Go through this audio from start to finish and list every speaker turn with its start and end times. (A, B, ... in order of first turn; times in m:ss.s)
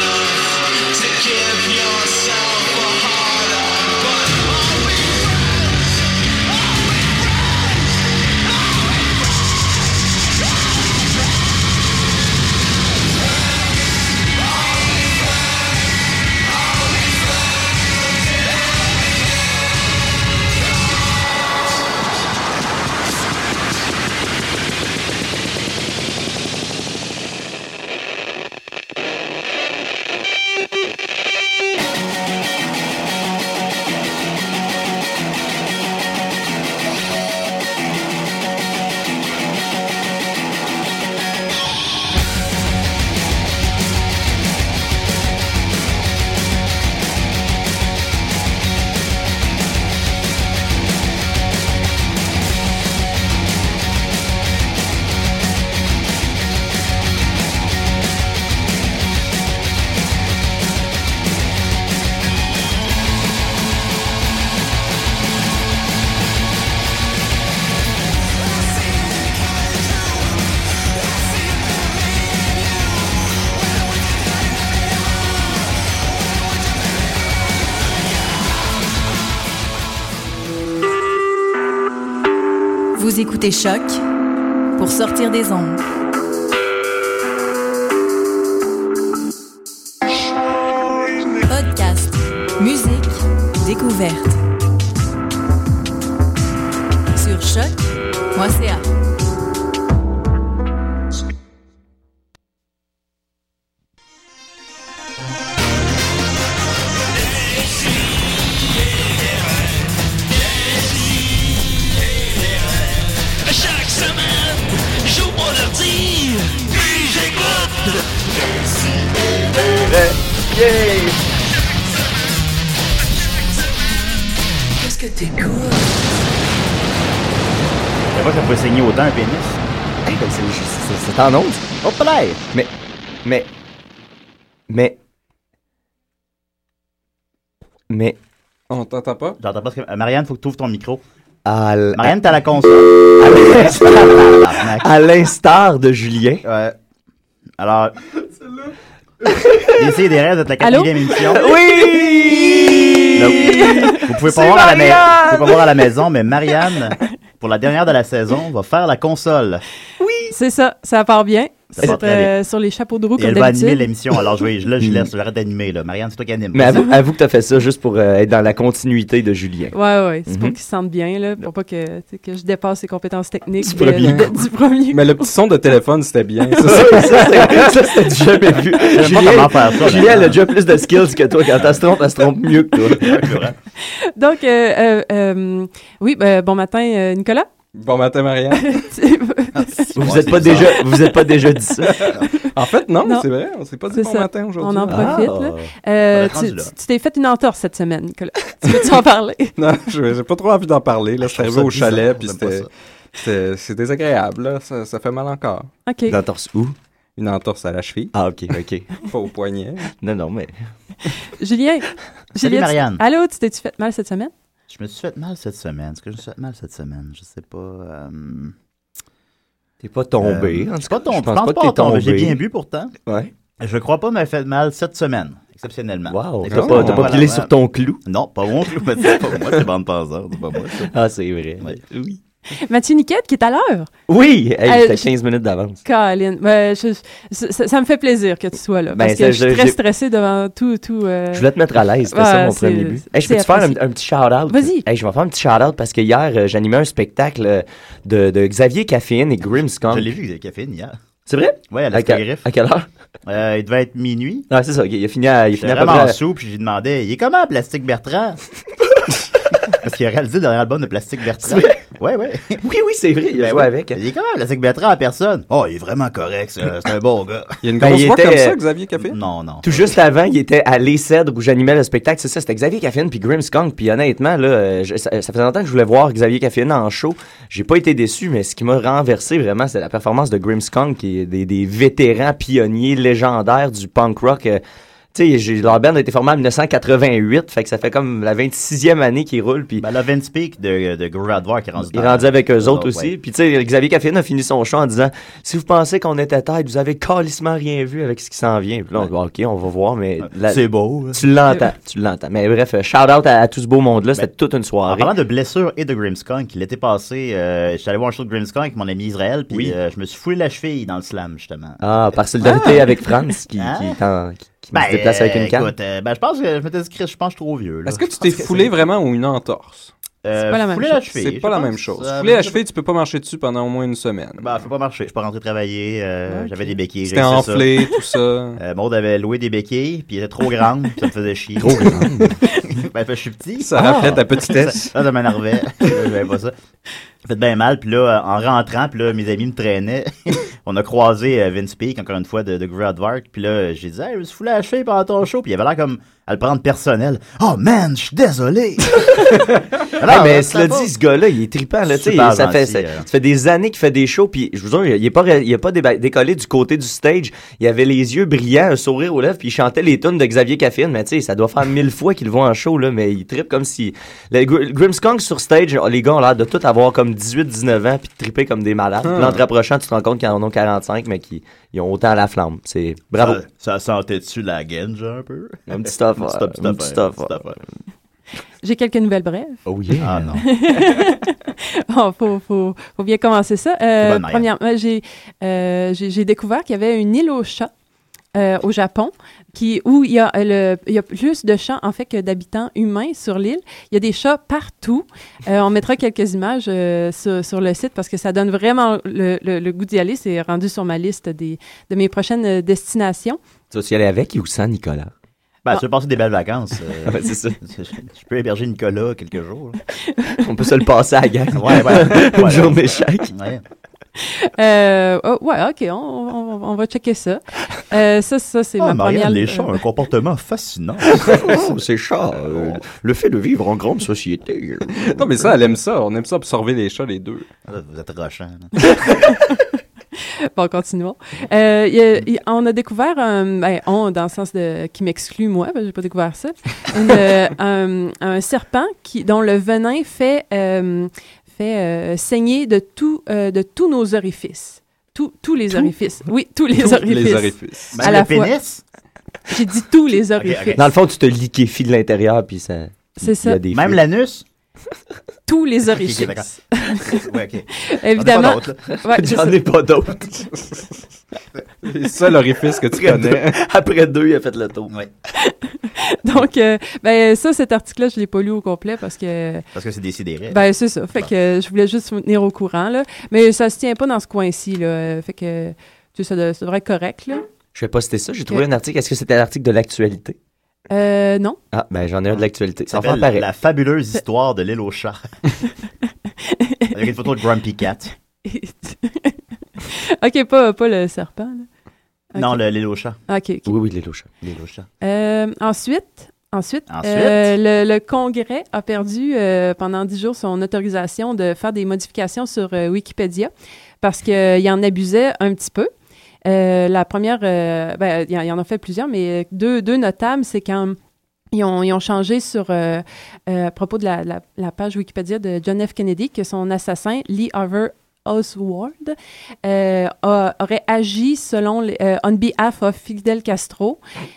0:01.0-0:03.4 A
1:23.0-1:24.0 B
1:24.8-1:25.8 B
1:31.5-1:34.4 B
1:37.2-1:38.8 B
1:53.5-1:54.5 A
1:55.1-1:57.4 A
2:00.6-2:01.1 C
2:00.6-2:01.0 D
2:04.9-2:05.7 A
2:08.1-2:09.6 D
2:10.0-2:11.7 C
2:11.8-2:12.4 D
2:13.2-2:13.5 C
2:14.7-2:15.0 C
2:17.9-2:18.2 C
2:18.7-2:19.4 E
2:19.4-2:21.0 D
2:21.4-2:22.2 C
2:21.9-2:24.9 D
2:23.2-2:26.4 C
2:26.4-2:26.8 D
2:27.6-2:28.0 D
2:29.5-2:29.8 C
2:29.6-2:39.6 D
2:30.6-2:31.2 F
2:31.2-2:35.6 C
2:33.3-2:34.1 F
2:40.0-2:40.3 C
2:40.3-2:43.9 F
2:41.7-2:42.3 D
2:43.2-2:46.9 D
2:44.8-2:45.1 C
2:46.5-2:49.8 C
2:49.7-2:55.4 F
2:50.3-2:50.6 C
2:53.6-2:54.4 C
2:54.0-2:57.6 E
2:56.6-3:03.4 C
2:58.8-3:00.5 D
3:01.5-3:03.6 D
3:03.8-3:07.5 F
3:07.8-3:08.8 E
3:08.6-3:09.9 F
3:09.6-3:10.9 D
3:10.0-3:12.1 C
3:11.9-3:15.2 E
3:12.2-3:12.5 F
3:13.9-3:19.5 F
3:14.9-3:15.7 C
3:16.1-3:16.7 D
3:19.6-3:22.7 E
3:21.2-3:22.7 D
3:23.2-3:25.7 E
3:25.9-3:26.2 F
3:26.1-3:26.8 C
3:27.2-3:28.1 E
3:28.1-3:28.9 C
3:29.0-3:29.9 E
3:30.0-3:30.5 C
3:31.4-3:34.3 F
3:32.4-3:33.0 D
3:34.7-3:38.6 D
3:39.8-3:42.4 C
3:40.2-3:43.0 D
3:43.1-3:43.3 C
3:43.6-3:47.5 D
3:46.1-3:48.0 C
3:46.5-3:47.2 E
3:48.0-3:50.9 D
3:50.7-3:52.2 C
3:52.6-3:53.9 F
3:54.1-3:55.8 C
3:54.6-3:55.1 F
3:55.8-4:01.5 F
3:58.9-3:59.8 C
4:01.3-4:10.1 C
4:02.1-4:03.8 F
4:04.5-4:04.9 F
4:09.8-4:11.0 D
4:11.3-4:12.9 C
4:11.7-4:12.5 D
4:13.3-4:14.5 D
4:14.5-4:16.2 C
4:15.6-4:18.4 D
4:19.7-4:22.6 D
4:21.4-4:21.8 C
4:22.6-4:24.0 C
4:23.4-4:27.6 D
4:27.6-4:29.2 E
4:27.8-4:28.6 C
4:29.0-4:29.9 D
4:29.6-4:44.6 C
4:45.1-4:49.9 C
4:49.8-4:53.1 D
4:51.9-5:05.1 C
5:00.2-5:01.2 D
5:04.8-5:11.8 D
5:09.5-5:09.8 C
5:11.8-5:15.7 C
5:12.4-5:12.9 D
5:13.6-5:14.0 D
5:14.7-5:18.9 D
5:17.9-5:19.9 E
5:20.2-5:22.6 D
5:20.5-5:21.0 F
5:21.2-5:24.5 E
5:24.4-5:27.9 D
5:26.3-5:26.7 F
5:27.1-5:28.6 E
5:28.6-5:36.6 D
5:31.7-5:32.3 C
5:33.6-5:35.0 E
5:37.2-5:49.2 D
5:49.1-6:13.4 C
5:49.9-5:50.9 D
5:51.9-5:53.1 D
6:09.0-6:09.4 E
6:13.2-6:17.6 D
6:15.7-6:17.5 C
6:18.6-6:19.6 F
6:19.7-6:20.4 C
6:20.0-6:20.5 D
6:20.4-6:27.7 F
6:24.0-6:24.5 D
6:28.3-6:43.4 F
6:43.7-6:45.1 C
6:45.6-6:49.8 D
6:47.0-6:47.6 C
6:50.1-6:50.4 F
6:50.4-6:53.3 C
6:51.5-6:53.6 D
6:54.2-6:59.8 F
6:58.8-7:01.4 D
7:01.1-7:05.3 C
7:02.5-7:02.8 D
7:04.9-7:07.4 E
7:07.7-7:08.7 D
7:09.0-7:09.6 F
7:10.6-7:28.6 F
7:26.8-7:28.0 E
7:28.0-7:28.8 D
7:29.5-7:30.8 F
7:30.4-7:30.9 D
7:30.8-7:34.0 C
7:33.2-7:33.6 F
7:33.7-7:34.4 D
7:35.5-7:37.2 F
7:35.9-7:38.8 D
7:37.8-7:39.6 F
7:38.9-7:40.6 C
7:40.6-7:41.0 E
7:41.8-7:43.6 E
7:42.9-7:44.9 C
7:45.4-7:49.7 F
7:49.7-7:50.6 D
7:50.5-7:57.4 F
7:57.7-8:00.4 C
8:00.9-8:01.6 F
8:01.7-8:03.5 C
8:02.3-8:05.3 D
8:06.4-8:07.0 F
8:06.9-8:08.1 D
8:08.4-8:11.7 F
8:12.4-8:12.6 F
8:12.4-8:13.2 D
8:13.3-8:13.7 F
8:13.7-8:14.3 C
8:14.4-8:14.9 D
8:15.0-8:23.5 F
8:16.9-8:17.5 D
8:24.0-8:25.9 F
8:26.4-8:31.0 F
8:31.5-8:44.0 F